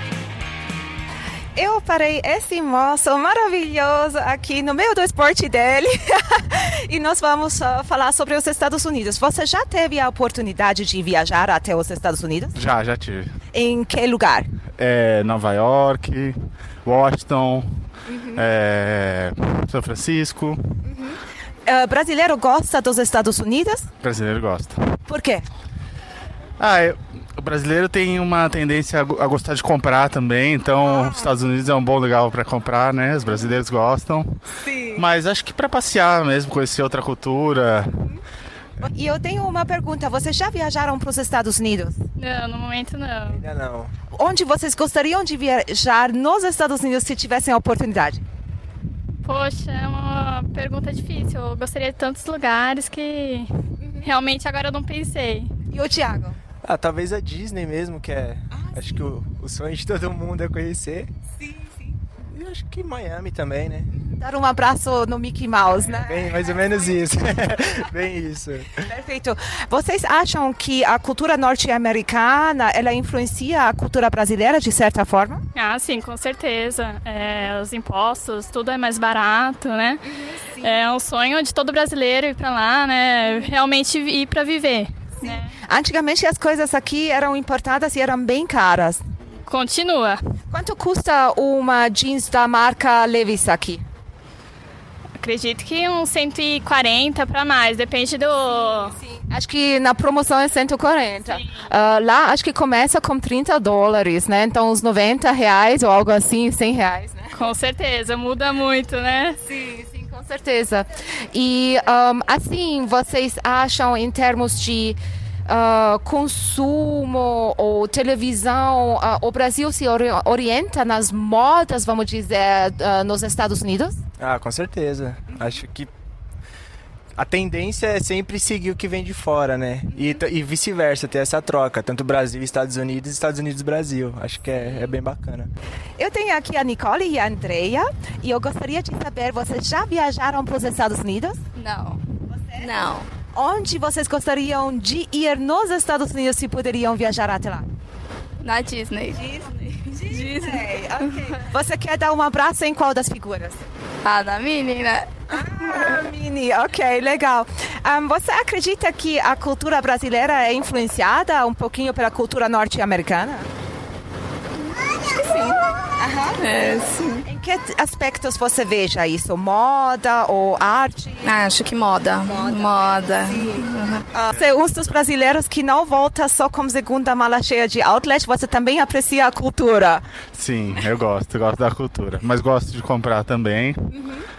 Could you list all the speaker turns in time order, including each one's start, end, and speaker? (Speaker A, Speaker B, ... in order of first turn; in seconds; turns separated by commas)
Speaker A: 1.5-12.5, Speaker B: 12.5-13.3, Speaker A: 13.5-14.5, Speaker B: 14.8-17.6, Speaker A: 18.1-18.4, Speaker B: 18.3-20.7, Speaker A: 20.8-23.9, Speaker B: 24.0-24.8, Speaker A: 25.1-25.4, Speaker B: 26.6-34.4, Speaker A: 34.6-35.0, Speaker B: 35.0-37.9, Speaker A: 38.8-42.0, Speaker C: 42.2-43.4, Speaker D: 43.3-43.9, Speaker A: 44.1-48.2, Speaker C: 49.2-53.5, Speaker A: 53.8-54.1, Speaker C: 54.0-55.5, Speaker A: 55.7-56.4, Speaker D: 56.6-61.1, Speaker A: 58.5-58.9, Speaker A: 61.4-61.8, Speaker D: 62.3-63.9, Speaker A: 63.9-67.0, Speaker D: 65.9-68.8, Speaker A: 68.8-75.4, Speaker C: 75.5-80.0, Speaker C: 80.6-85.5, Speaker A: 85.2-89.0, Speaker C: 89.5-90.2, Speaker A: 90.5-93.8, Speaker C: 95.2-99.0, Speaker A: 98.7-107.3, Speaker C: 107.3-109.4, Speaker A: 109.4-124.0, Speaker D: 124.2-125.9, Speaker D: 127.1-135.5, Speaker A: 136.0-141.4, Speaker E: 141.6-142.0, Speaker A: 142.3-142.7, Speaker E: 142.6-143.1, Speaker A: 143.3-147.6, Speaker E: 148.4-151.0, Speaker A: 149.2-153.7, Speaker E: 154.0-155.1, Speaker A: 155.3-163.5, Speaker A: 165.3-166.4, Speaker E: 166.4-167.2, Speaker A: 167.2-171.4, Speaker E: 171.2-174.0, Speaker A: 172.3-180.0, Speaker B: 180.3-183.8, Speaker A: 184.0-184.2